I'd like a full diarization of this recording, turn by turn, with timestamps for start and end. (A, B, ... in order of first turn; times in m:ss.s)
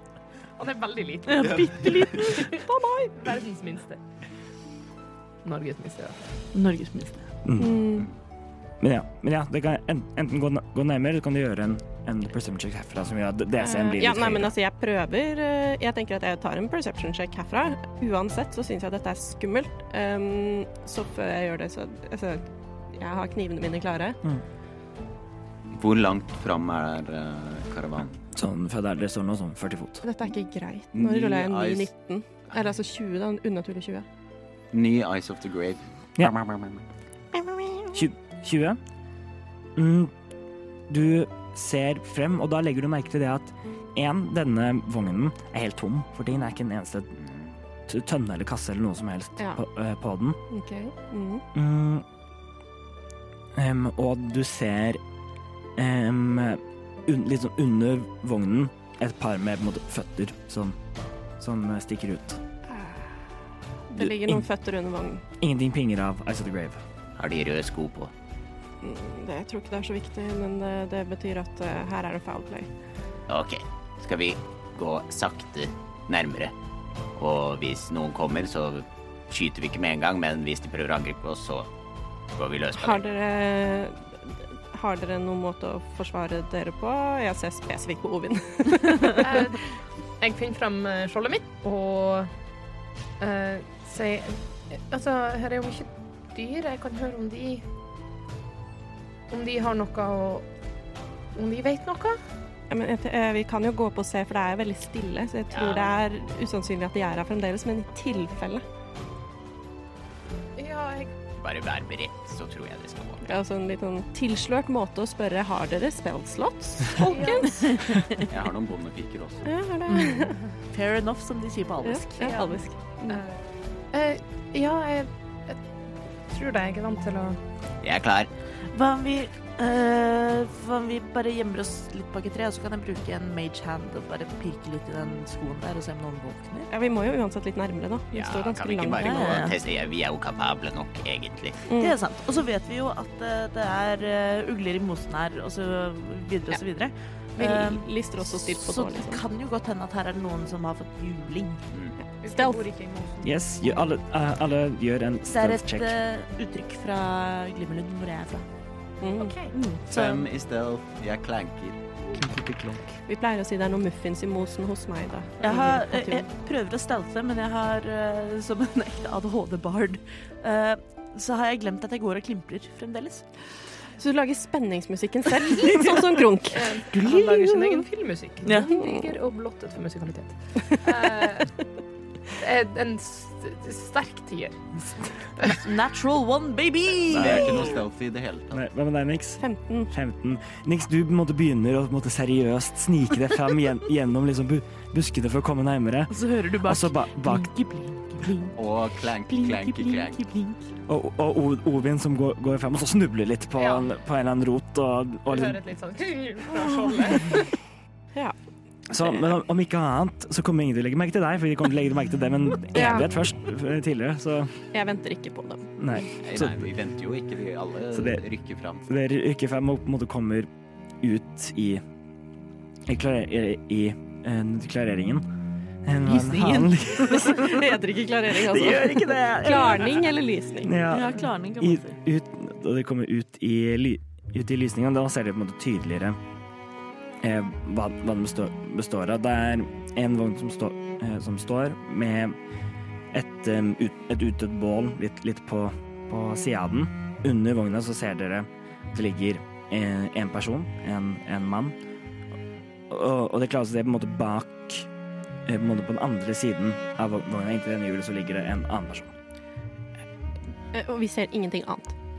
0:00.6-0:01.6 A
0:01.3-0:02.6 B
0:02.5-0:03.1 C
0:03.1-0:04.0 A
0:05.4-0:06.2 A
0:06.5-0:07.3 B
0:07.4-0:08.0 D
0:07.6-0:08.1 C
0:08.8-0:14.5 D
0:13.6-0:24.2 C
0:25.8-0:28.0 E
0:28.4-0:30.0 D
0:30.0-0:34.1 C
0:30.9-0:31.9 E
0:34.8-0:35.8 E
0:37.9-0:38.8 D
0:39.8-0:40.1 D
0:40.9-0:47.2 D
0:47.9-0:50.4 D
0:50.5-0:51.4 C
0:51.5-0:52.0 D
0:53.6-0:55.0 D
0:55.8-1:00.8 D
1:01.4-1:02.4 D
1:02.7-1:03.2 C
1:03.9-1:05.2 C
1:04.0-1:04.4 D
1:05.4-1:06.8 D
1:07.2-1:08.1 F
1:08.8-1:12.7 C
1:13.3-1:16.5 F
1:17.2-1:21.7 F
1:22.4-1:23.0 F
1:22.7-1:29.5 C
1:29.2-1:29.6 A
1:30.2-1:32.3 A
1:33.2-1:37.6 A
1:39.3-1:40.5 A
1:41.4-1:42.2 A
1:42.7-1:48.6 C
1:45.6-1:45.8 F
1:50.6-1:51.1 A
1:51.4-1:53.2 F
1:53.2-1:58.0 C
1:57.0-1:57.8 A
1:57.7-1:58.2 B
1:58.2-1:58.7 F
1:58.3-1:59.4 E
1:59.4-2:00.4 C
1:59.9-2:02.5 B
2:01.8-2:03.2 C
2:03.1-2:03.4 A
2:03.9-2:05.6 A
2:06.3-2:07.4 A
2:07.8-2:08.3 F
2:08.7-2:16.7 B
2:16.7-2:19.5 C
2:18.1-2:21.6 F
2:19.0-2:19.6 B
2:21.7-2:22.0 C
2:21.8-2:31.6 B
2:27.4-2:29.2 C
2:32.2-2:33.4 A
2:32.2-2:32.6 C
2:33.2-2:36.0 D
2:35.3-2:38.4 B
2:39.0-2:39.4 C
2:39.2-2:39.5 A
2:39.5-2:40.3 B
2:39.9-2:41.8 E
2:42.2-2:42.8 D
2:43.1-2:46.3 C
2:45.4-2:53.3 B
2:54.0-2:56.8 C
2:56.5-3:01.6 A
2:56.9-2:57.8 B
2:58.4-2:58.7 B
3:02.4-3:05.6 A
3:05.5-3:07.8 B
3:07.1-3:07.7 D
3:07.1-3:08.6 E
3:08.5-3:17.5 D
3:09.4-3:09.9 C
3:16.1-3:18.6 B
3:18.6-3:20.2 F
3:19.3-3:20.7 B
3:19.4-3:19.7 E
3:20.9-3:25.6 D
3:23.6-3:23.9 A
3:25.3-3:27.5 A
3:28.9-3:34.6 D
3:32.7-3:33.1 C
3:34.7-3:35.7 C
3:35.8-3:36.6 D
3:36.3-3:38.7 F
3:37.3-3:37.7 E
3:37.9-3:38.2 D
3:38.9-3:40.5 D
3:41.0-3:41.8 D
3:42.9-3:45.2 D
3:45.8-3:47.7 D
3:46.1-3:47.4 B
3:47.1-3:50.8 C
3:48.3-3:50.1 D
3:50.6-3:56.2 D
3:50.9-3:51.9 B
3:57.2-4:02.4 D
4:03.1-4:11.8 D
4:12.9-4:14.9 D
4:15.4-4:19.1 D
4:20.7-4:21.9 C